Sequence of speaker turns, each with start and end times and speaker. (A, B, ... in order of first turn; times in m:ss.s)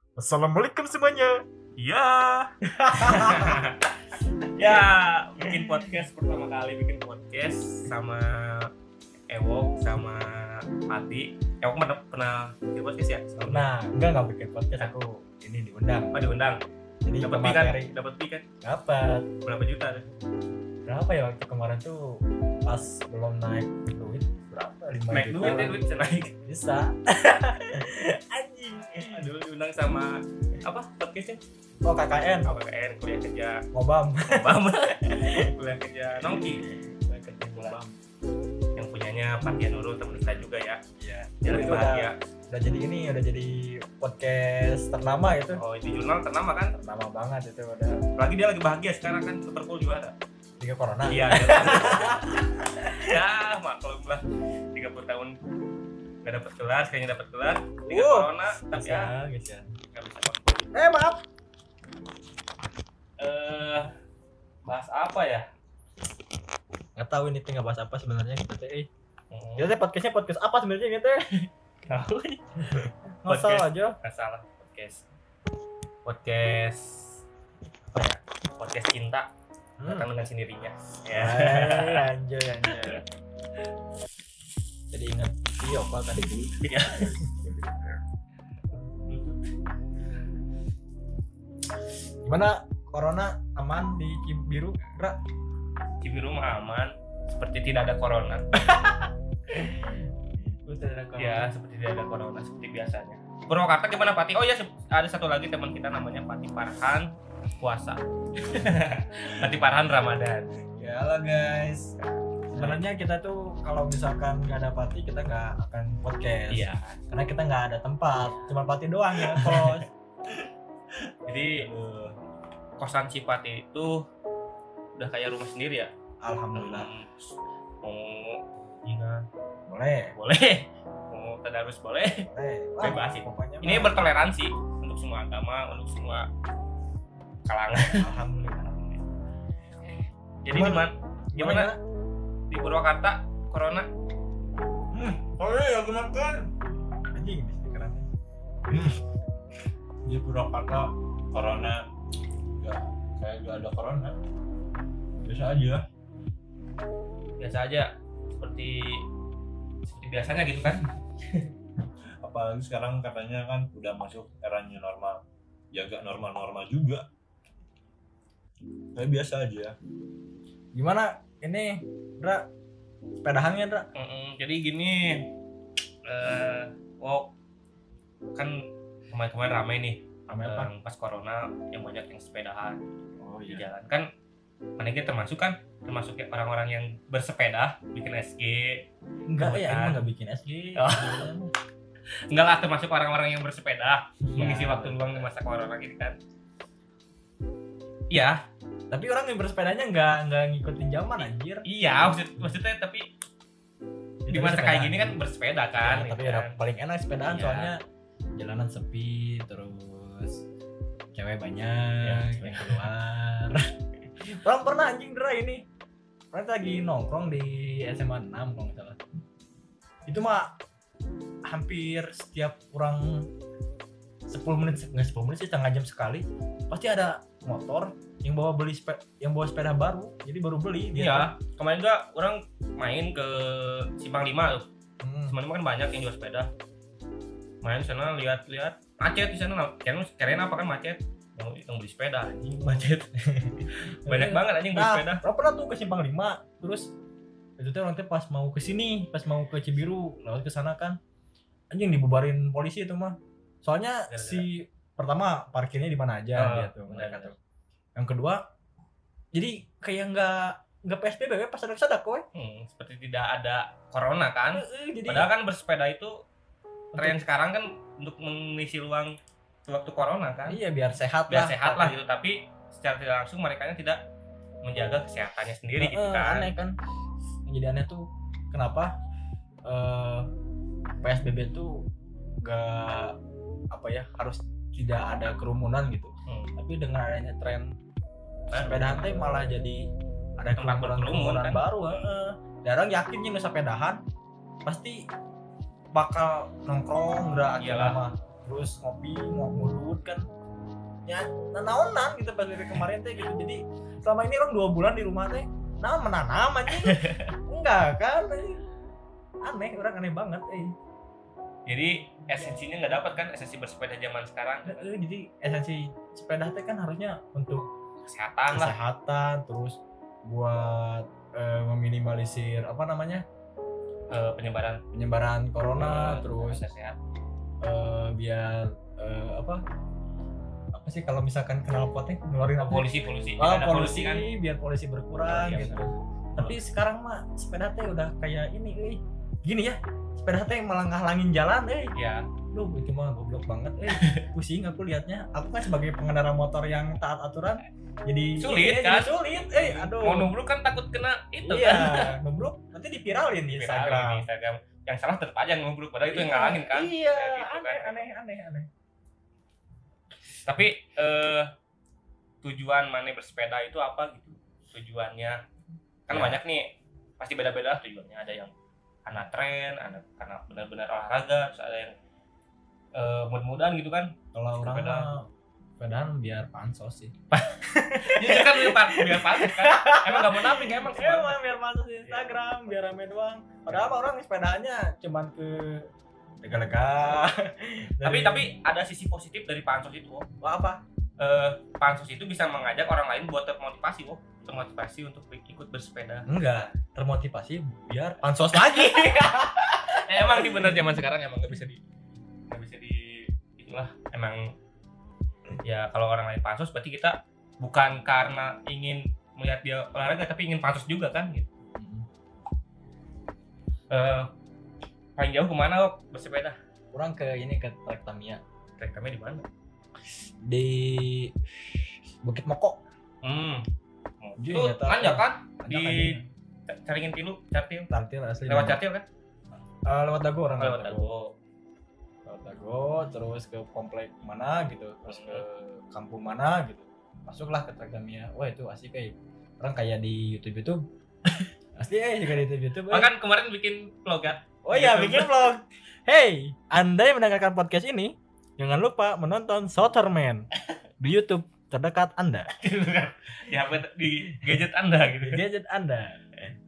0:00.2-0:01.4 A
0:01.8-0:03.9 B
0:02.7-0:03.6 A
0:04.6-0:08.7 B
0:05.5-0:05.9 A
0:09.3-0:13.7 B
0:13.4-0:16.2 A
0:16.1-0:16.6 B
0:17.0-0:17.9 A
0:17.2-0:18.4 B
0:18.6-0:19.3 A
0:19.4-0:20.1 B
0:20.9-0:25.8 A
0:25.1-0:26.3 B
0:26.5-0:29.3 A
0:29.1-0:31.4 B
0:31.8-0:32.5 A
0:32.4-0:33.6 B
0:33.7-0:34.5 A
0:34.3-0:37.8 B
0:35.1-0:35.5 A
0:36.4-0:38.0 A
0:38.8-0:40.8 B
0:41.0-0:45.6 A
0:41.4-0:42.2 B
0:45.6-0:46.8 B
0:46.8-0:48.0 A
0:48.2-0:50.2 B
0:50.6-0:53.2 A
0:51.1-0:52.4 B
0:53.0-0:55.3 B
0:56.2-0:59.1 B
0:57.9-0:59.7 A
0:59.9-1:00.7 B
1:00.7-1:01.2 A
1:03.2-1:03.9 B
1:04.6-1:05.5 B
1:07.0-1:08.9 A
1:09.3-1:09.8 B
1:09.6-1:11.3 A
1:11.4-1:12.4 B
1:12.7-1:14.0 A
1:13.3-1:15.0 B
1:16.0-1:17.2 B
1:17.9-1:19.3 B
1:19.8-1:20.1 A
1:19.8-1:22.1 B
1:21.2-1:23.0 A
1:22.7-1:23.0 B
1:24.9-1:27.5 A
1:26.6-1:27.2 B
1:28.7-1:29.4 B
1:32.2-1:35.2 A
1:36.0-1:38.9 B
1:39.5-1:41.5 A
1:41.2-1:50.5 B
1:50.8-1:51.9 A
1:52.0-1:52.8 B
1:52.5-1:59.9 A
1:56.5-1:57.0 B
1:59.2-1:59.7 B
2:01.3-2:01.7 B
2:01.5-2:02.2 C
2:02.8-2:04.0 B
2:05.0-2:05.9 B
2:06.2-2:06.9 A
2:06.5-2:09.2 B
2:09.7-2:10.2 A
2:10.2-2:12.3 B
2:12.2-2:14.0 A
2:12.8-2:16.3 B
2:17.5-2:19.0 B
2:17.9-2:18.7 A
2:20.4-2:21.7 B
2:20.5-2:21.8 A
2:22.5-2:23.9 B
2:24.9-2:26.5 C
2:27.1-2:28.1 A
2:30.0-2:31.8 C
2:32.6-2:34.2 C
2:35.2-2:35.9 C
2:37.4-2:39.0 B
2:39.9-2:40.9 B
2:42.2-2:47.1 C
2:49.0-2:49.8 C
2:50.8-2:52.5 A
2:53.2-2:53.9 A
2:54.0-2:55.3 B
2:56.1-2:57.3 B
2:58.4-3:02.8 B
3:00.3-3:00.7 A
3:03.2-3:03.6 A
3:03.5-3:04.0 B
3:04.8-3:08.9 B
3:09.3-3:11.5 A
3:09.4-3:10.0 B
3:10.8-3:11.3 B
3:12.3-3:16.2 B
3:14.2-3:15.3 A
3:18.1-3:18.4 B
3:18.9-3:21.7 A
3:21.2-3:23.1 B
3:24.3-3:25.2 A
3:24.3-3:27.7 B
3:25.8-3:27.8 A
3:28.4-3:30.4 A
3:31.1-3:33.7 A
3:32.0-3:32.9 B
3:34.2-3:35.6 A
3:36.3-3:39.0 A
3:40.1-3:40.6 A
3:41.5-3:43.3 A
3:44.3-3:51.3 A
3:51.0-3:54.7 B
3:55.0-3:55.4 A
3:55.3-3:56.5 B
3:57.6-4:03.1 B
4:03.3-4:06.9 A
4:03.7-4:05.2 B
4:07.6-4:11.0 A
4:11.7-4:17.4 A
4:14.1-4:14.5 B
4:16.4-4:17.3 B
4:18.0-4:18.4 A
4:19.3-4:22.3 A
4:22.3-4:26.1 B
4:24.5-4:25.3 A
4:26.9-4:27.2 A
4:27.0-4:29.2 B
4:29.7-4:30.6 B
4:30.5-4:32.0 A
4:31.3-4:34.0 B
4:34.6-4:36.6 B
4:35.8-4:36.8 A
4:37.5-4:38.9 A
4:39.7-4:40.3 A
4:41.0-4:41.8 A
4:42.4-4:43.2 A
4:43.7-4:47.8 A
4:46.3-4:46.5 B
4:48.5-4:49.4 B
4:48.6-4:49.9 A
4:50.4-4:54.0 A
4:50.5-4:52.1 B
4:54.7-4:55.0 A
4:55.9-5:00.3 A
4:57.6-4:58.0 B
5:01.1-5:08.6 A
5:06.7-5:07.4 B
5:09.4-5:10.8 A
5:11.7-5:14.9 B
5:14.7-5:17.7 A
5:18.0-5:18.8 B
5:18.5-5:23.2 A
5:24.1-5:24.8 B
5:24.9-5:26.7 A
5:25.8-5:27.0 B
5:27.6-5:29.6 A
5:30.7-5:41.9 A
5:32.6-5:34.3 B
5:35.3-5:36.6 B
5:42.0-5:42.3 B
5:42.5-5:50.3 A
5:43.9-5:44.3 B
5:48.4-5:52.2 B
5:51.4-5:54.3 A
5:53.5-5:58.1 B
5:56.1-5:58.7 A
6:00.5-6:01.5 B
6:02.4-6:05.4 B
6:06.1-6:08.5 B
6:06.1-6:06.4 A
6:09.1-6:11.9 B
6:13.0-6:15.2 B
6:14.3-6:15.3 A
6:15.8-6:25.9 A
6:17.3-6:22.8 B
6:26.4-6:28.5 A
6:28.0-6:30.3 B
6:30.4-6:30.8 A
6:31.2-6:36.3 B
6:36.3-6:40.9 A
6:38.6-6:39.4 B
6:39.9-6:41.8 B
6:42.5-6:44.5 B
6:45.6-6:51.5 B
6:51.8-6:52.1 A
6:53.9-6:54.3 B
6:55.2-6:56.6 B
6:56.9-6:58.4 A
6:58.8-6:59.5 B
7:00.4-7:02.8 A
7:03.2-7:03.6 B
7:04.2-7:06.2 B
7:04.4-7:06.3 A
7:06.7-7:07.9 B
7:07.9-7:08.8 A
7:08.5-7:09.1 B
7:09.8-7:11.1 A
7:10.6-7:11.4 B
7:12.3-7:23.1 A
7:15.1-7:15.4 B
7:22.9-7:25.4 B
7:24.6-7:30.5 A
7:31.0-7:32.5 A
7:32.5-7:35.4 B
7:35.2-7:36.2 A